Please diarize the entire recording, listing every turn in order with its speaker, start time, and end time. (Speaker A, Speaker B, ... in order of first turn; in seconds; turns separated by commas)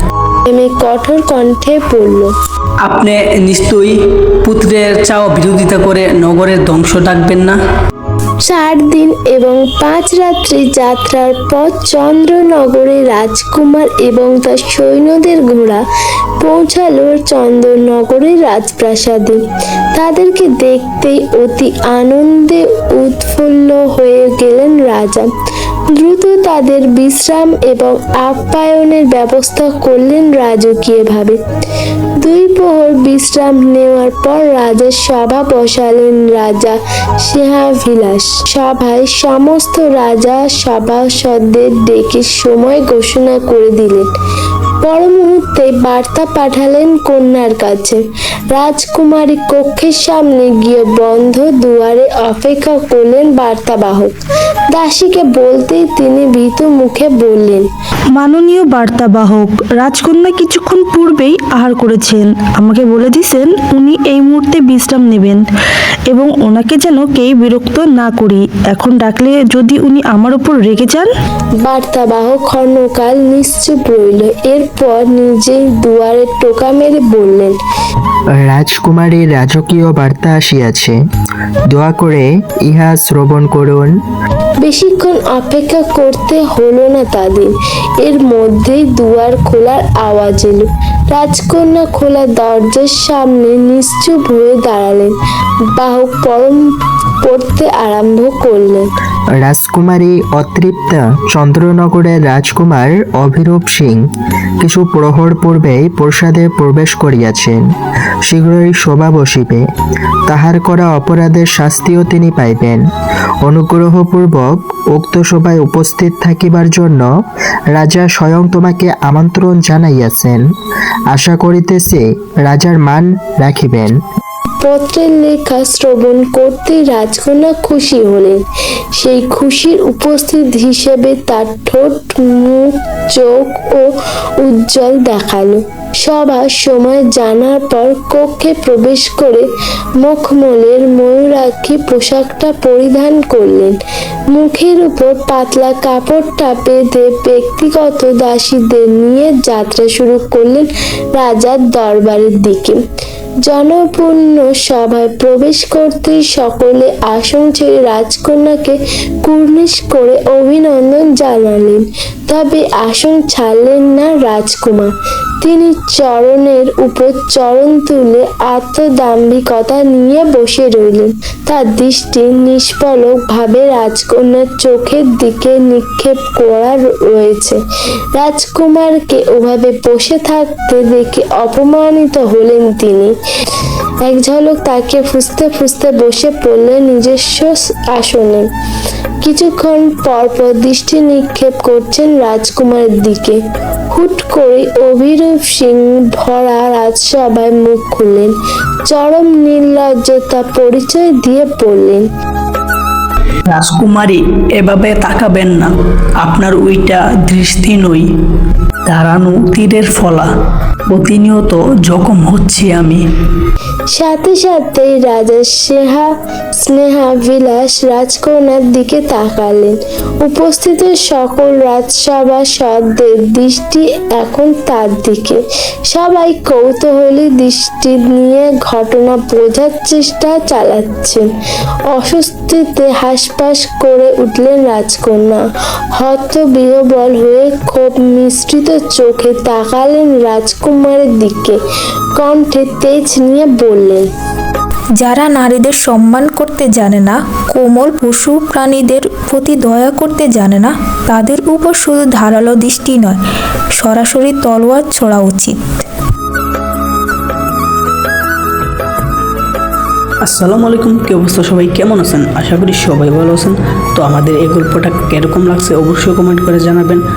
Speaker A: 0.5-2.3, Speaker B: 2.9-7.6, Speaker A: 8.5-15.8, Speaker A: 16.4-19.4, Speaker A: 20.0-25.3, Speaker A: 25.9-31.4, Speaker A: 32.2-44.1, Speaker A: 44.8-54.1, Speaker A: 54.7-57.7, Speaker C: 58.2-65.4, Speaker C: 66.1-71.1, Speaker A: 71.6-77.6, Speaker D: 78.4-81.0, Speaker D: 81.7-83.9, Speaker A: 84.6-95.1, Speaker A: 95.8-96.7, Speaker A: 97.2-98.9, Speaker D: 99.3-104.0, Speaker D: 104.6-107.6, Speaker D: 108.3-109.7, Speaker D: 110.3-112.8, Speaker D: 113.4-117.1, Speaker D: 117.7-120.4, Speaker D: 121.1-124.0, Speaker A: 124.6-128.4, Speaker A: 129.0-133.9, Speaker A: 134.4-139.5, Speaker A: 140.0-143.8, Speaker A: 144.3-152.8, Speaker A: 153.4-164.9, Speaker A: 165.4-177.6, Speaker A: 178.2-183.1, Speaker A: 184.0-188.5, Speaker A: 189.2-193.4, Speaker A: 193.9-198.3, Speaker A: 198.9-202.1, Speaker B: 203.5-205.7, Speaker B: 206.2-208.1, Speaker B: 208.9-210.3, Speaker B: 210.9-213.0, Speaker A: 213.9-231.2, Speaker A: 231.9-235.4, Speaker A: 236.0-241.6, Speaker A: 242.2-244.1, Speaker E: 245.0-253.2, Speaker E: 253.8-255.6, Speaker B: 260.2-267.0